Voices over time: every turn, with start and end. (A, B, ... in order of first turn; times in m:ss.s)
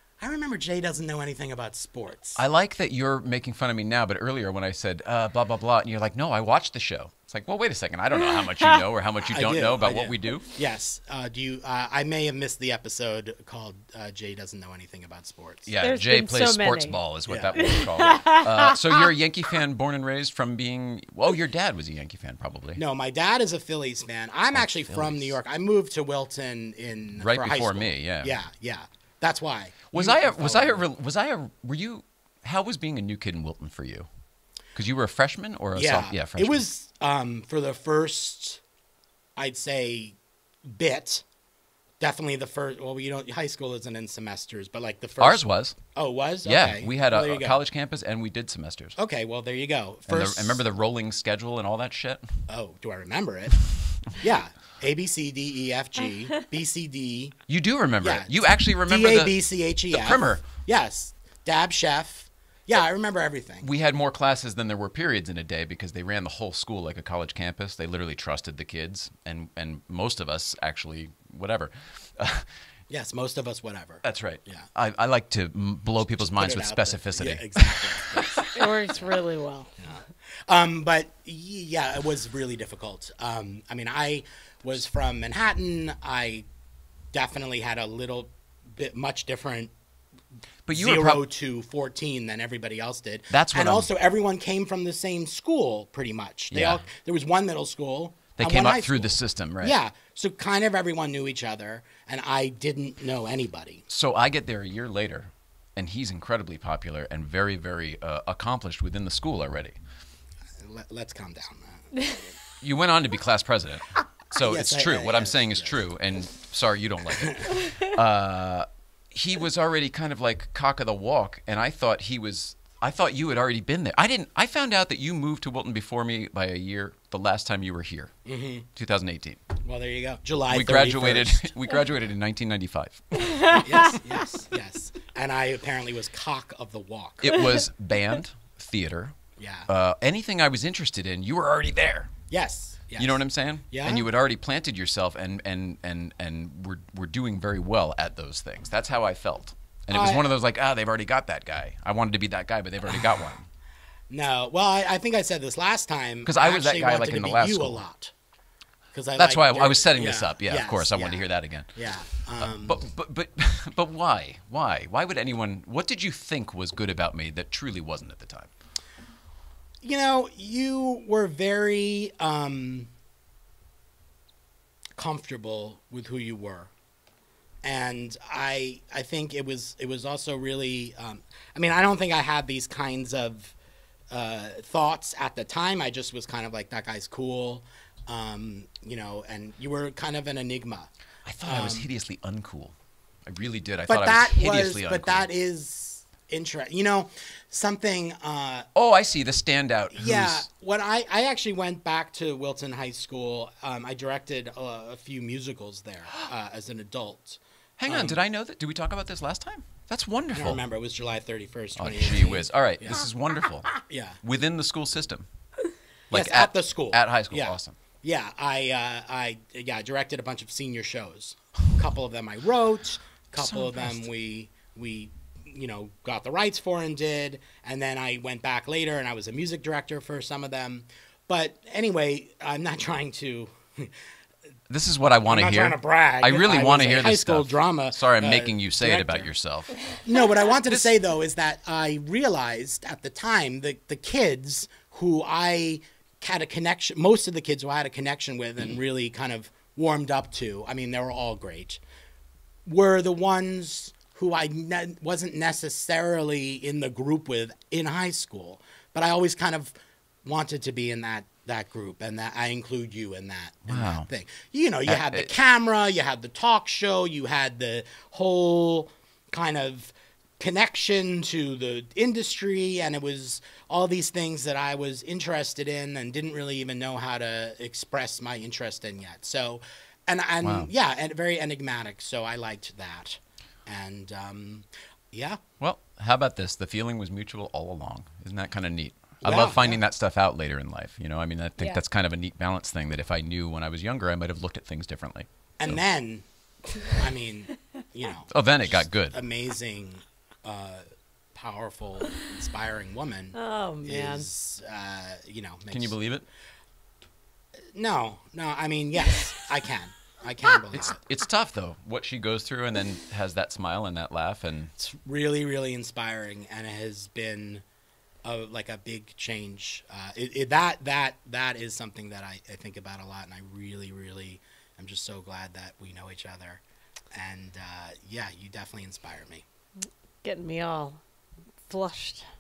0:00.2-0:02.4 A
0:02.4-0:10.5 B
0:09.3-0:15.7 A
0:15.7-0:22.8 B
0:15.8-0:17.0 C
0:17.3-0:17.6 A
0:17.6-0:18.8 C
0:22.8-0:30.8 A
0:24.5-0:25.4 B
0:27.2-0:28.4 B
0:29.9-0:34.1 B
0:34.8-0:36.6 B
0:35.8-0:38.6 A
0:39.4-0:41.2 A
0:42.0-0:47.6 A
0:45.2-0:45.8 B
0:46.4-0:49.0 B
0:49.0-0:50.6 A
0:50.1-0:52.5 B
0:52.5-0:53.6 A
0:54.2-0:57.4 A
0:57.5-1:00.4 B
0:58.0-1:03.7 A
1:03.6-1:12.5 B
1:12.9-1:14.7 A
1:14.0-1:18.3 B
1:16.1-1:18.6 A
1:18.5-1:19.7 C
1:19.8-1:26.4 A
1:27.1-1:29.7 A
1:30.7-1:31.3 B
1:30.7-1:43.8 A
1:33.3-1:33.9 B
1:36.5-1:36.9 B
1:38.4-1:39.8 B
1:43.9-1:49.8 B
1:50.6-1:52.2 A
1:52.6-2:08.1 B
1:54.4-1:55.8 A
2:08.3-2:08.7 A
2:08.7-2:09.4 B
2:09.6-2:11.4 A
2:10.5-2:13.3 B
2:13.3-2:13.6 C
2:13.6-2:17.4 A
2:17.2-2:22.1 B
2:19.4-2:19.7 A
2:22.3-2:24.1 A
2:23.0-2:33.5 B
2:29.9-2:30.3 A
2:34.1-2:38.1 A
2:36.2-2:37.8 B
2:38.9-2:42.8 A
2:39.2-2:41.8 B
2:42.4-2:48.5 B
2:49.8-2:52.9 A
2:55.0-2:56.7 A
2:57.6-3:03.6 A
3:04.1-3:10.9 A
3:11.2-3:15.3 B
3:11.4-3:11.9 A
3:13.9-3:18.7 A
3:18.8-3:20.5 B
3:19.9-3:28.2 A
3:27.8-3:30.6 B
3:30.3-3:33.0 A
3:31.8-3:35.3 B
3:33.7-3:34.2 A
3:36.1-3:37.8 B
3:36.1-3:53.9 A
3:43.3-3:44.1 B
3:54.7-4:00.0 B
3:55.3-3:59.3 A
3:59.9-4:11.8 A
4:00.6-4:00.9 B
4:12.7-4:45.4 A
4:23.7-4:24.1 B
4:24.9-4:25.3 B
4:40.4-4:40.7 B
4:45.6-4:55.8 B
4:49.2-4:49.8 A
4:55.6-4:56.2 A
4:56.9-5:06.0 A
4:58.3-4:59.2 B
5:03.4-5:04.3 C
5:05.7-5:06.3 B
5:07.8-5:11.0 A
5:10.7-5:14.7 B
5:14.8-5:17.6 A
5:18.2-5:26.6 A
5:27.1-5:29.4 A
5:30.2-5:31.0 C
5:31.7-5:32.3 C